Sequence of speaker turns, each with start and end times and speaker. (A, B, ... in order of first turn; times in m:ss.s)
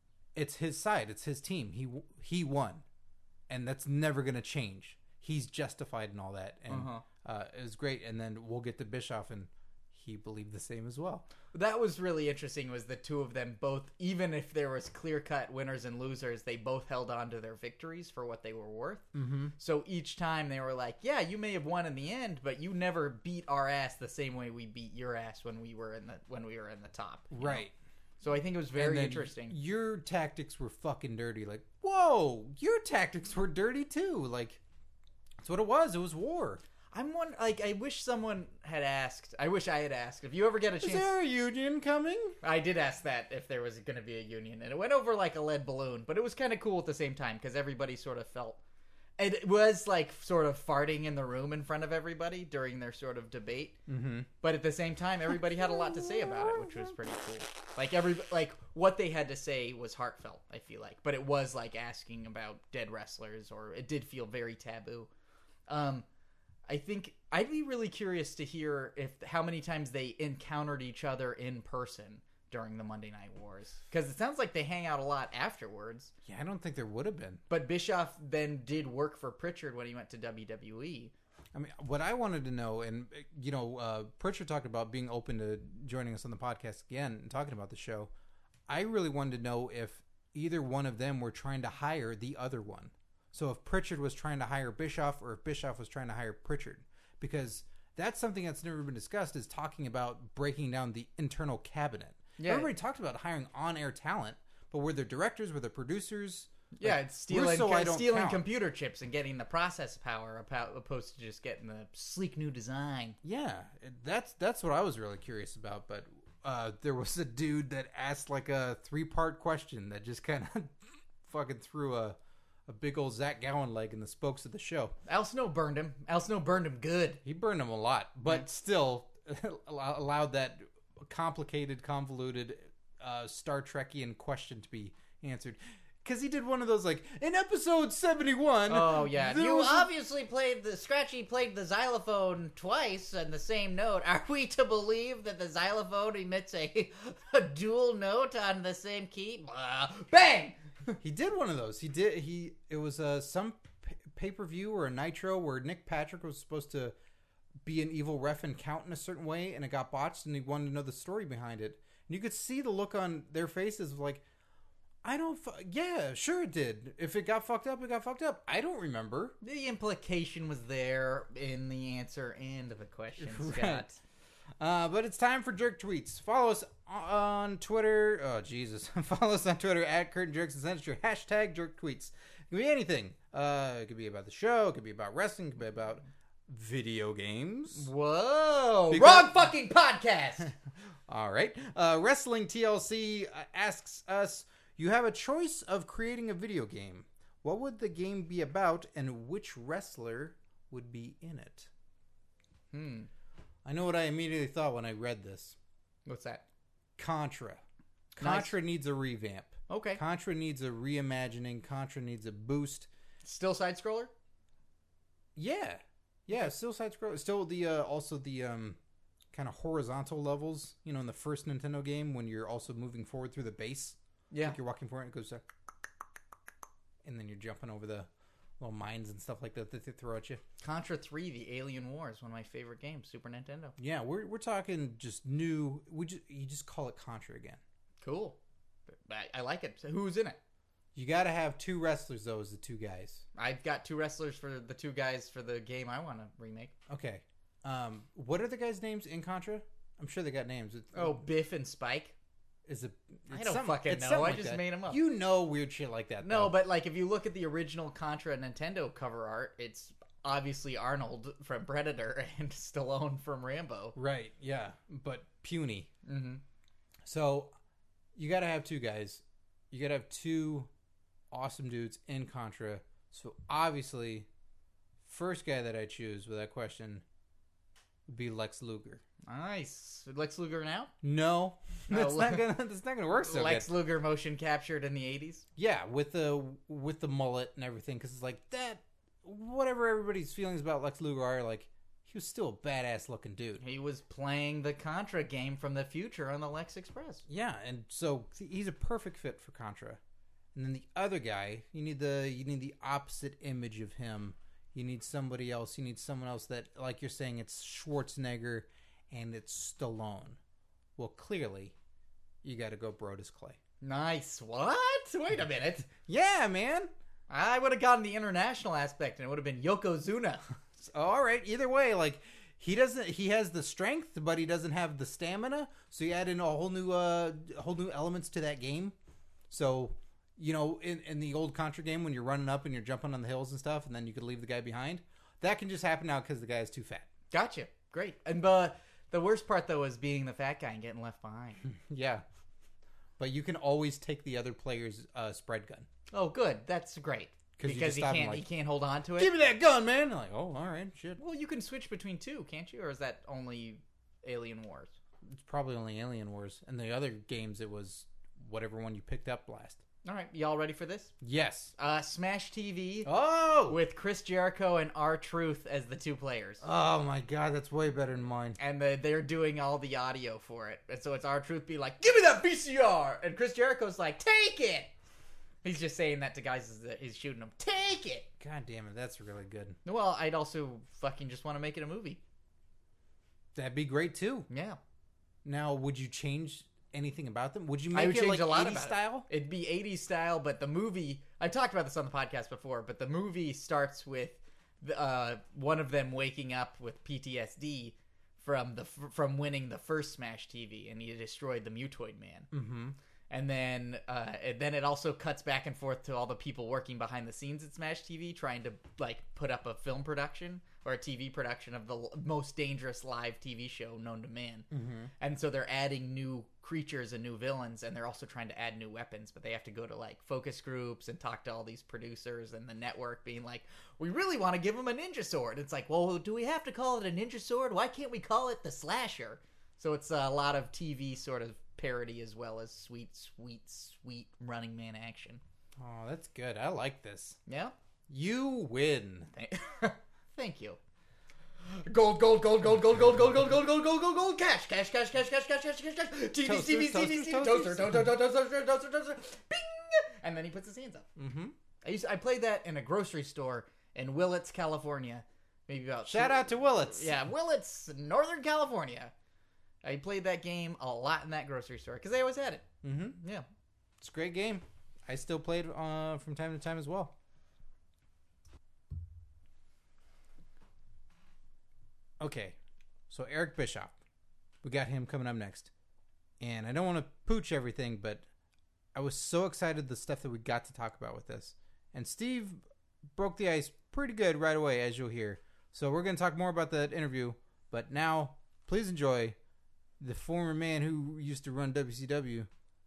0:00.3-0:02.8 A
0:03.5-0:11.2 A
0:06.7-0:07.0 B
0:11.5-0:19.1 B
0:19.1-0:19.5 A
0:19.6-0:27.6 B
0:27.3-0:27.7 A
0:28.2-0:29.6 B
0:28.8-0:34.6 A
0:35.4-0:36.6 A
0:36.9-0:41.1 B
0:40.8-0:42.4 A
0:42.4-0:48.6 B
0:49.2-0:53.8 B
0:53.9-0:54.3 A
0:54.4-1:05.1 B
0:55.6-0:56.9 A
1:05.7-1:06.0 B
1:06.7-1:16.1 B
1:16.2-1:17.4 A
1:17.5-1:21.1 B
1:21.5-1:28.1 A
1:28.7-1:48.4 A
1:42.4-1:42.7 B
1:46.7-1:53.2 B
1:53.2-2:05.0 A
2:05.1-2:07.2 B
2:07.2-2:19.9 A
2:18.7-2:30.6 B
2:31.0-2:36.9 A
2:37.6-2:44.2 A
2:45.0-2:49.4 A
2:49.4-2:54.0 B
2:53.2-2:53.9 A
2:54.6-3:07.9 A
3:07.7-3:10.5 B
3:08.9-3:09.5 A
3:11.1-3:21.7 A
3:22.7-3:23.1 B
3:23.6-3:25.6 A
3:26.0-3:26.4 B
3:27.0-3:27.6 A
3:28.2-3:32.9 A
3:28.2-3:28.5 B
3:29.7-3:30.0 B
3:33.2-3:34.1 B
3:35.4-3:38.8 A
3:39.3-3:45.4 A
3:44.3-3:44.6 B
3:47.0-3:48.1 A
3:48.6-3:50.4 A
3:50.6-3:53.7 B
3:53.8-3:57.6 A
3:58.0-3:58.4 B
3:58.9-4:00.4 B
4:00.9-4:03.2 A
4:03.4-4:06.7 B
4:06.9-4:11.2 A
4:10.9-4:12.1 B
4:12.6-4:16.6 A
4:13.3-4:15.0 B
4:16.2-4:24.0 B
4:23.9-4:25.9 A
4:26.0-4:26.4 B
4:27.0-4:27.5 A
4:28.1-4:30.7 A
4:31.3-4:34.3 A
4:35.0-4:37.0 A
4:38.1-4:39.0 A
4:39.3-4:40.9 B
4:41.0-4:43.7 A
4:41.9-4:42.5 B
4:43.2-4:45.4 B
4:45.6-4:53.6 A
4:53.6-4:57.2 B
4:57.3-5:00.0 A
5:00.5-5:10.4 A
5:11.0-5:11.7 A
5:12.4-5:13.6 A
5:13.8-5:15.9 B
5:16.0-5:16.9 A
5:17.3-5:20.4 B
5:20.8-5:28.9 A
5:29.5-5:37.1 A
5:37.3-5:41.6 B
5:41.6-5:42.2 A
5:43.2-5:45.9 A
5:46.1-5:49.3 B
5:47.6-5:48.4 A
5:49.2-5:51.2 A
5:51.2-5:54.9 B
5:55.2-5:59.8 A
6:00.0-6:01.1 B
6:01.2-6:01.7 A
6:01.8-6:03.1 B
6:03.0-6:03.8 A
6:03.7-6:06.6 B
6:06.6-6:08.6 A
6:08.6-6:14.9 B
6:15.6-6:18.3 B
6:18.4-6:19.8 A
6:19.8-6:22.2 B
6:23.5-6:24.5 A
6:24.5-6:24.8 B
6:25.4-6:29.3 A
6:27.9-6:42.5 B
6:42.5-6:43.0 A
6:43.3-6:54.7 B
6:54.7-6:55.1 A
6:55.2-7:15.4 B
7:15.8-7:17.4 A
7:17.5-7:17.7 B
7:18.1-7:19.3 A
7:19.3-7:20.8 B
7:21.6-7:31.1 B
7:26.4-7:28.1 A
7:31.2-7:31.6 A
7:31.8-7:39.1 B
7:36.0-7:37.1 A
7:39.8-7:43.4 B
7:42.8-7:43.2 A
7:44.0-7:47.1 A
7:52.2-7:52.6 A
7:53.1-7:54.0 A
7:54.6-7:55.7 A
7:56.4-7:58.2 A
7:58.9-8:02.6 A
8:03.1-8:09.4 A
8:10.0-8:12.5 A